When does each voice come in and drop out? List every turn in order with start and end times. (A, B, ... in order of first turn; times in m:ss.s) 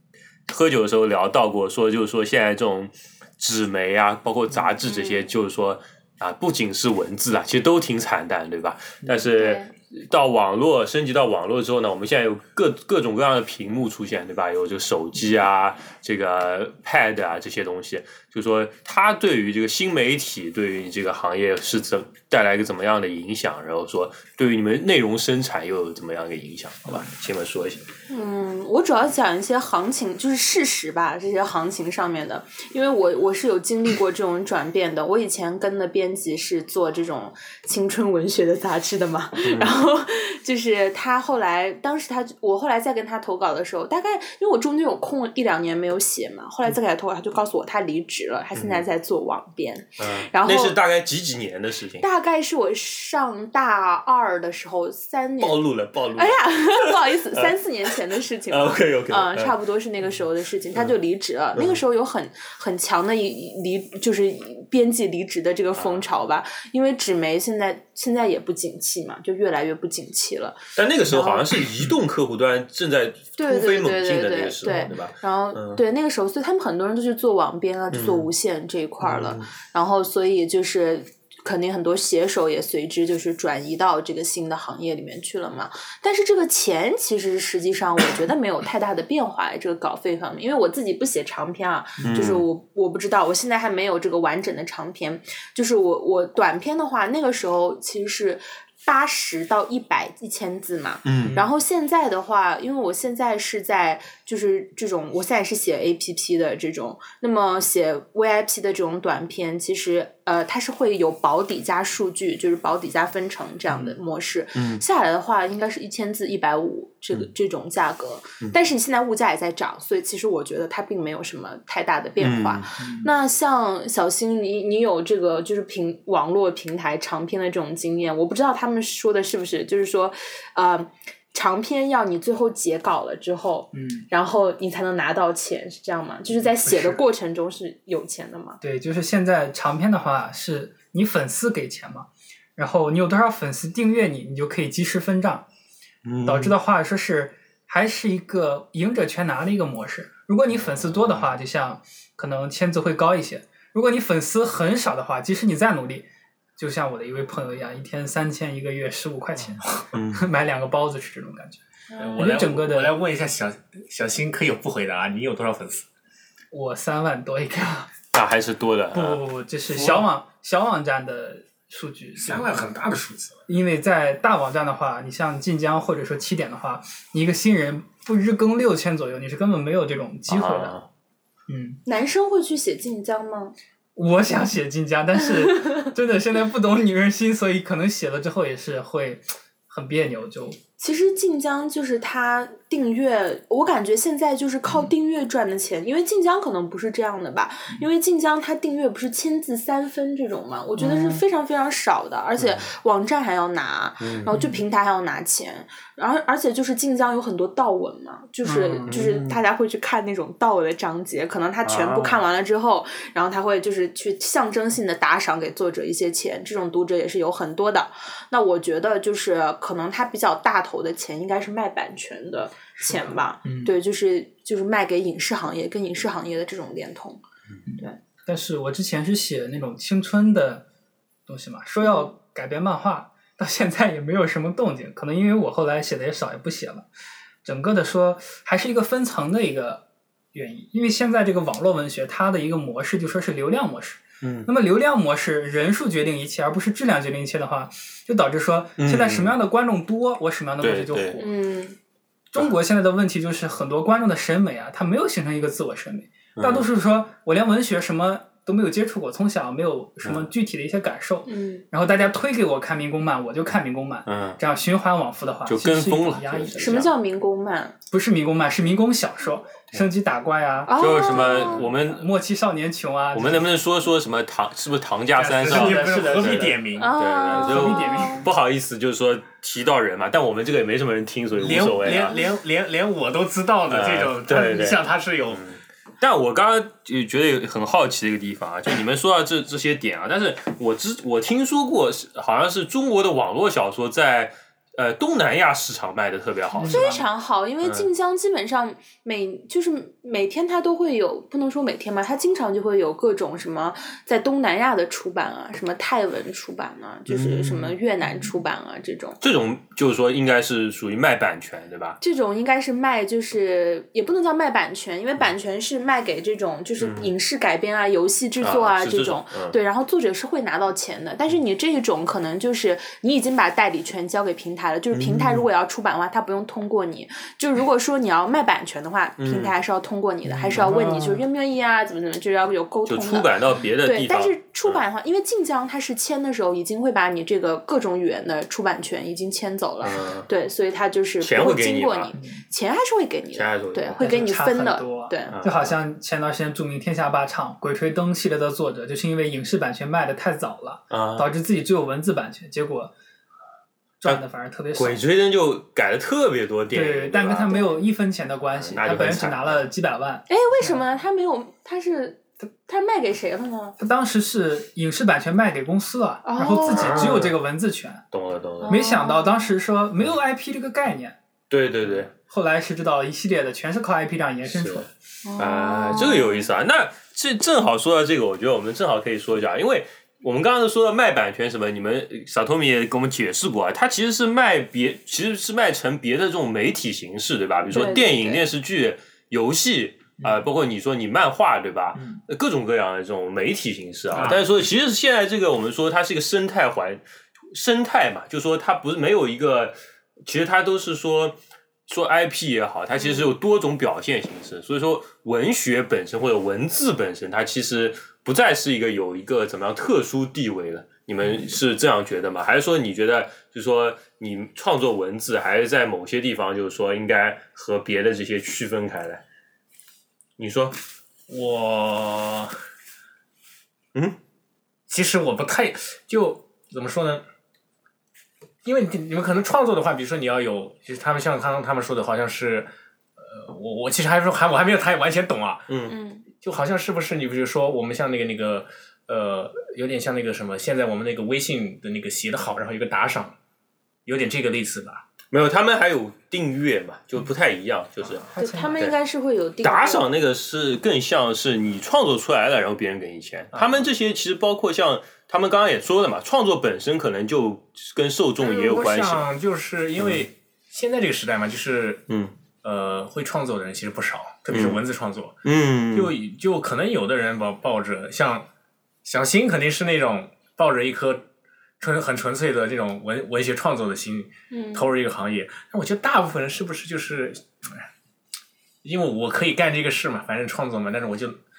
0:00.5-0:27.8 A
0:04.8-0:05.3 B
0:09.3-0:09.7 B
0:28.1-0:50.8 B
0:39.4-0:39.8 A
0:48.6-0:48.8 A
0:50.0-0:52.0 A
0:52.0-1:11.6 B
0:55.4-0:57.6 A
0:58.5-0:59.5 A
1:01.6-1:01.8 A
1:05.8-1:06.0 A
1:10.8-1:15.8 A
1:13.4-2:18.6 B
1:17.9-1:18.3 A
1:19.0-1:19.5 A
1:32.0-1:32.4 A
1:41.0-1:41.4 A
1:54.6-1:54.8 A
2:02.2-2:02.7 A
2:02.8-2:03.1 C
2:13.7-2:14.1 C
2:16.6-2:17.0 C
2:18.6-2:25.5 C
2:26.0-2:26.6 A
2:26.3-2:36.1 C
2:30.5-2:31.3 A
2:36.6-2:41.6 C
2:39.9-2:40.3 A
2:41.9-2:42.3 B
2:42.0-2:45.9 D
2:42.2-2:43.0 C
2:46.5-2:47.9 C
2:48.1-2:50.1 A
2:48.9-2:52.5 C
2:52.2-2:53.4 D
2:53.5-3:00.8 C
3:00.3-3:00.9 A
3:01.5-3:01.8 C
3:01.9-3:03.6 B
3:04.0-3:10.6 C
3:10.8-3:47.2 B
3:20.8-3:21.2 C
3:22.4-3:22.7 A
3:24.0-3:24.3 A
3:24.3-3:24.6 C
3:28.4-3:29.0 C
3:28.9-3:29.4 A
3:31.6-3:32.2 A
3:42.8-3:43.8 C
3:47.7-3:50.6 C
3:51.3-3:56.8 C
3:51.8-3:52.1 B
3:57.4-3:59.8 C
4:00.3-4:11.3 C
4:04.2-4:04.5 A
4:08.8-4:09.4 A
4:10.6-4:11.2 A
4:11.2-4:11.8 B
4:12.3-4:26.9 C
4:16.4-4:16.7 A
4:20.0-4:20.3 A
4:21.3-4:21.7 B
4:24.1-4:24.4 A
4:25.5-4:26.9 A
4:26.6-4:27.8 B
4:27.9-4:33.5 C
4:30.6-4:31.6 B
4:30.8-4:32.1 A
4:33.1-4:42.2 A
4:35.2-4:36.9 D
4:35.5-4:36.6 C
4:36.8-4:38.3 B
4:37.3-4:38.3 C
4:41.4-4:45.4 D
4:43.7-4:57.0 A
4:56.5-4:57.0 C
4:56.7-5:09.2 B
5:07.1-5:07.8 A
5:09.2-5:12.0 A
5:12.0-5:45.4 B
5:16.8-5:17.1 A
5:18.4-5:19.6 A
5:24.9-5:25.5 A
5:29.2-5:29.6 A
5:30.3-5:31.2 C
5:32.9-5:34.8 A
5:39.8-5:40.3 A
5:41.2-5:42.2 A
5:42.2-5:42.4 C
5:43.3-5:44.1 A
5:44.0-5:52.9 C
5:45.3-5:45.8 A
5:50.9-5:51.3 A
5:54.0-5:55.0 C
5:54.0-5:57.7 A
5:56.7-6:00.8 C
5:58.6-5:59.7 A
6:00.3-6:03.8 B
6:03.8-6:08.0 C
6:06.2-6:07.3 B
6:06.6-6:07.4 A
6:08.1-6:08.9 A
6:08.6-6:09.5 B
6:08.7-6:11.2 C
6:11.5-6:12.1 A
6:12.1-6:14.9 C
6:14.5-6:59.2 A
6:15.2-6:16.5 B
6:27.7-6:28.5 B
6:34.1-6:34.4 D
6:43.0-6:43.3 B
7:00.4-7:00.8 A
7:01.3-7:02.6 D
7:04.9-7:07.2 D
7:08.6-7:15.7 D
7:15.7-7:16.0 A
7:15.9-7:16.3 B
7:16.4-7:23.4 D
7:24.1-7:25.0 D
7:25.3-7:28.2 A
7:28.0-7:28.4 D
7:28.4-7:28.8 C
7:28.4-7:30.1 B
7:29.6-7:39.3 A
7:33.5-7:33.9 D
7:38.4-7:42.0 D
7:40.0-7:40.2 A
7:42.1-7:42.3 A
7:42.6-7:48.5 D
7:44.5-7:44.8 A
7:45.4-7:46.1 A
7:49.0-7:51.2 D
7:51.8-7:57.9 D
7:54.5-7:54.9 B
7:58.8-8:01.4 D